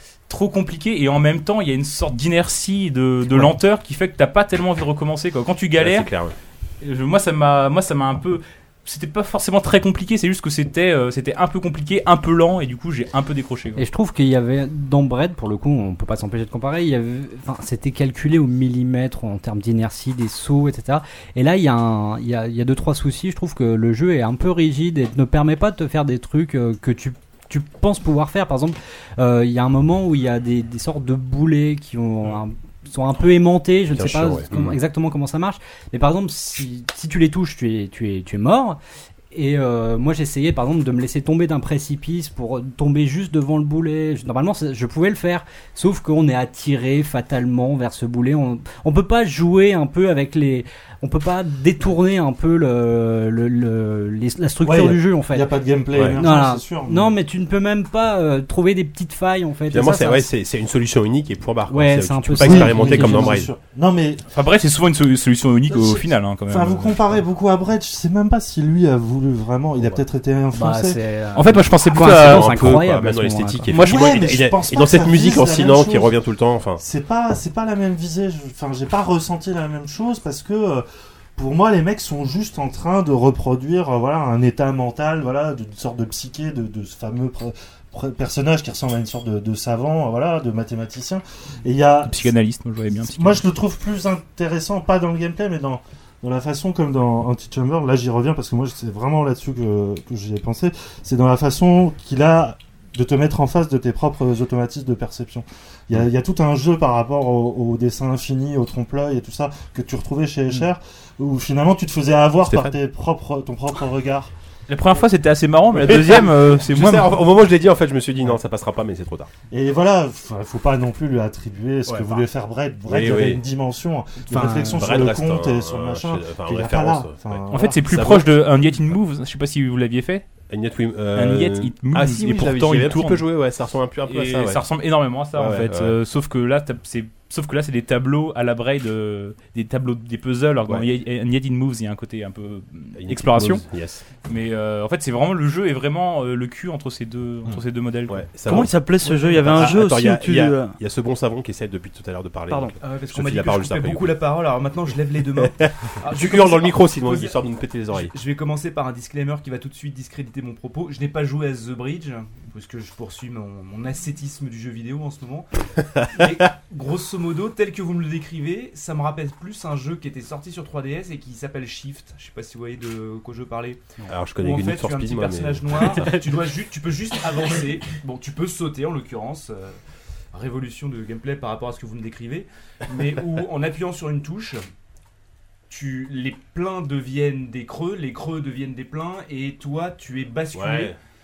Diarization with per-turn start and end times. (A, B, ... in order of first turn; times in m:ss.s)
0:00.3-0:06.1 A
0:05.8-0:06.3 B
0:06.8-0:13.8 A
0:13.8-0:38.8 C
0:33.9-0:34.8 B
0:39.3-0:55.5 C
0:54.6-0:57.1 D
0:55.9-0:56.2 B
0:56.1-1:00.3 C
0:59.7-1:03.5 B
1:01.7-1:03.4 C
1:02.4-1:04.2 D
1:04.3-1:07.2 A
1:05.7-1:11.0 D
1:10.5-1:13.7 C
1:11.3-1:12.8 A
1:11.8-1:16.8 B
1:13.7-1:14.1 A
1:13.7-1:16.1 D
1:16.8-1:20.8 D
1:21.4-1:32.3 D
1:32.0-1:33.4 A
1:33.0-1:54.3 D
1:52.4-1:52.7 B
1:54.7-1:57.2 A
1:55.8-1:59.3 B
1:59.5-2:07.8 D
2:01.9-2:02.2 B
2:02.8-2:03.4 B
2:04.3-2:04.8 C
2:04.7-2:08.3 B
2:07.5-2:10.2 A
2:10.5-2:14.6 B
2:11.1-2:13.2 A
2:14.0-2:23.6 A
2:15.3-2:16.0 B
2:23.0-2:24.0 B
2:24.2-2:28.3 A
2:28.1-2:28.7 B
2:28.4-2:30.8 E
2:29.0-2:29.7 F
2:29.4-2:34.2 B
2:32.5-2:32.8 E
2:32.8-2:37.4 F
2:35.4-2:38.1 B
2:37.9-2:45.5 F
2:46.1-2:59.8 F
2:54.1-2:56.2 B
3:00.3-3:04.6 F
3:05.7-3:11.0 F
3:10.5-3:11.0 B